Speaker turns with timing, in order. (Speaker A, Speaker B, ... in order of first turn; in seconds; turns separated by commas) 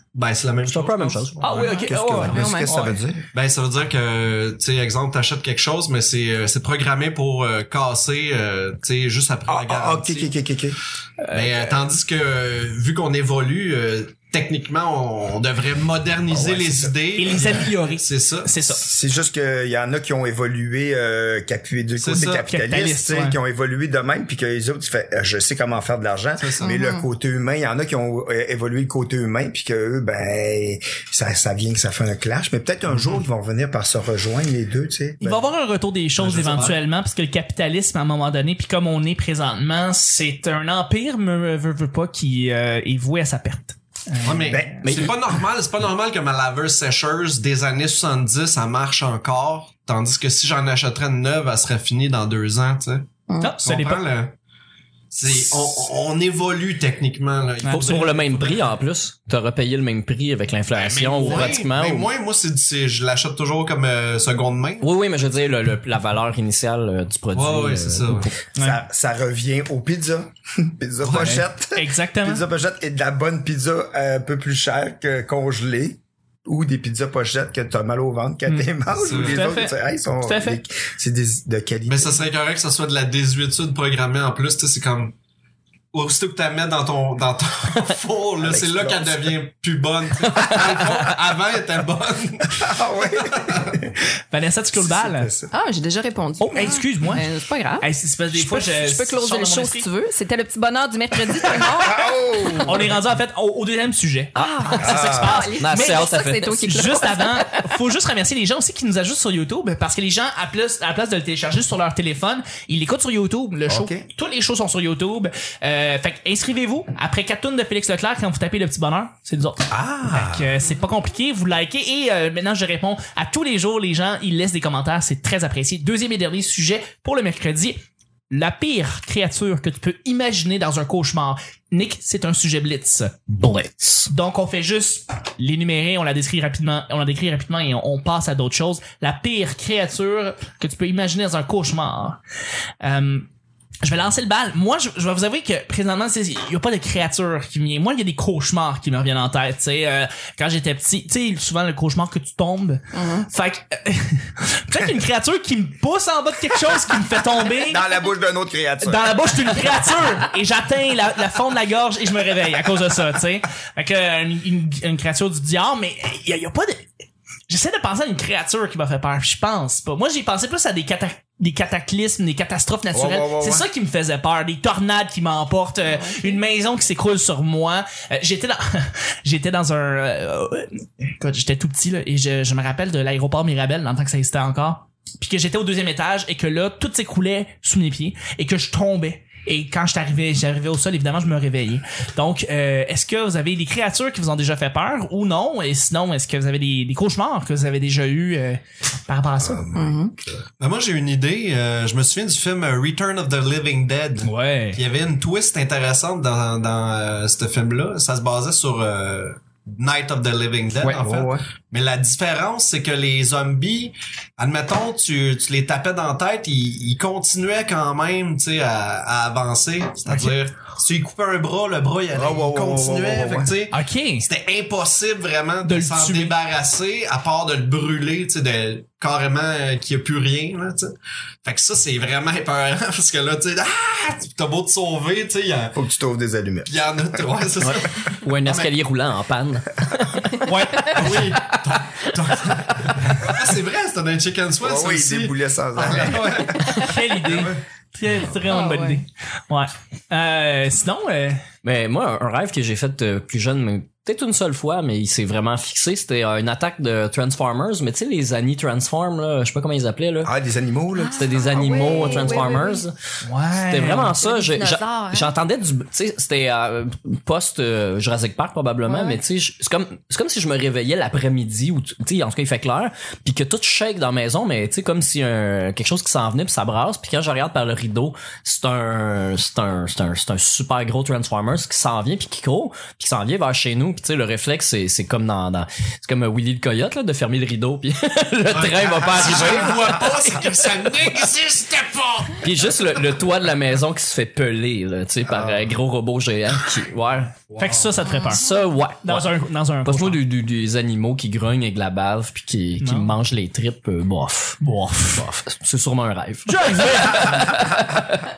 Speaker A: 0.1-1.9, Speaker B: 0.7-1.6, Speaker C: 1.4-2.9, Speaker D: 1.8-3.2, Speaker E: 2.1-2.9, Speaker A: 3.3-10.3, Speaker D: 9.5-10.8, Speaker C: 11.2-11.7, Speaker A: 11.3-18.5, Speaker D: 16.3-17.4, Speaker C: 17.2-18.8, Speaker D: 18.7-35.5, Speaker A: 22.0-22.4, Speaker C: 22.4-23.4, Speaker A: 26.4-26.8, Speaker E: 26.6-27.1, Speaker A: 32.9-33.2, Speaker C: 35.2-44.8, Speaker A: 36.2-36.8, Speaker A: 44.2-54.3, Speaker D: 44.5-45.1, Speaker B: 44.8-45.1, Speaker C: 53.4-54.0, Speaker A: 55.1-58.7, Speaker C: 57.6-58.0, Speaker B: 57.7-62.1, Speaker A: 60.7-64.9, Speaker B: 64.8-68.3, Speaker A: 67.3-68.3, Speaker C: 68.6-68.8, Speaker D: 68.6-82.2, Speaker A: 71.0-71.4, Speaker C: 71.1-72.4, Speaker C: 78.5-80.6, Speaker A: 79.0-79.5, Speaker A: 81.9-85.2, Speaker A: 85.9-93.8, Speaker D: 88.4-89.4, Speaker B: 90.4-91.0, Speaker D: 92.6-94.0, Speaker C: 94.3-95.3, Speaker D: 94.7-95.5, Speaker E: 95.5-102.6, Speaker C: 96.4-97.3, Speaker C: 97.8-99.9, Speaker D: 101.7-103.0, Speaker C: 102.5-127.8, Speaker E: 104.3-107.8, Speaker D: 104.8-105.5, Speaker B: 105.6-106.6, Speaker D: 113.7-114.1, Speaker D: 119.7-120.6, Speaker C: 128.3-133.3, Speaker B: 133.3-134.1, Speaker C: 134.0-142.2, Speaker C: 142.8-143.3, Speaker C: 143.8-157.8, Speaker E: 152.9-153.3, Speaker D: 157.6-159.6, Speaker C: 158.8-166.9, Speaker C: 167.5-199.7, Speaker D: 172.9-173.7, Speaker E: 175.9-176.4, Speaker D: 199.4-200.4, Speaker E: 199.8-200.1, Speaker A: 200.6-230.9, Speaker C: 204.2-204.8, Speaker D: 210.8-211.4, Speaker C: 220.1-220.3, Speaker D: 222.1-223.5, Speaker C: 223.7-224.3, Speaker C: 225.6-226.3, Speaker A: 231.4-235.8, Speaker D: 235.7-237.4, Speaker A: 236.7-238.7, Speaker B: 237.6-240.3, Speaker C: 240.3-241.4, Speaker A: 240.8-247.6, Speaker D: 244.6-246.8, Speaker C: 246.6-251.4, Speaker E: 248.4-249.0, Speaker B: 251.6-260.3, Speaker D: 260.2-262.3, Speaker E: 260.9-262.8, Speaker B: 261.1-262.9, Speaker C: 263.2-264.2, Speaker B: 263.6-290.9, Speaker E: 264.2-265.3, Speaker E: 268.9-269.2, Speaker A: 288.5-292.4, Speaker B: 292.4-297.4, Speaker D: 295.3-295.6, Speaker A: 297.5-297.9, Speaker C: 297.6-298.5, Speaker E: 298.1-298.4, Speaker B: 298.3-304.6, Speaker C: 299.0-300.2, Speaker C: 302.8-303.1, Speaker C: 304.6-305.3, Speaker B: 305.1-308.2, Speaker C: 306.5-308.0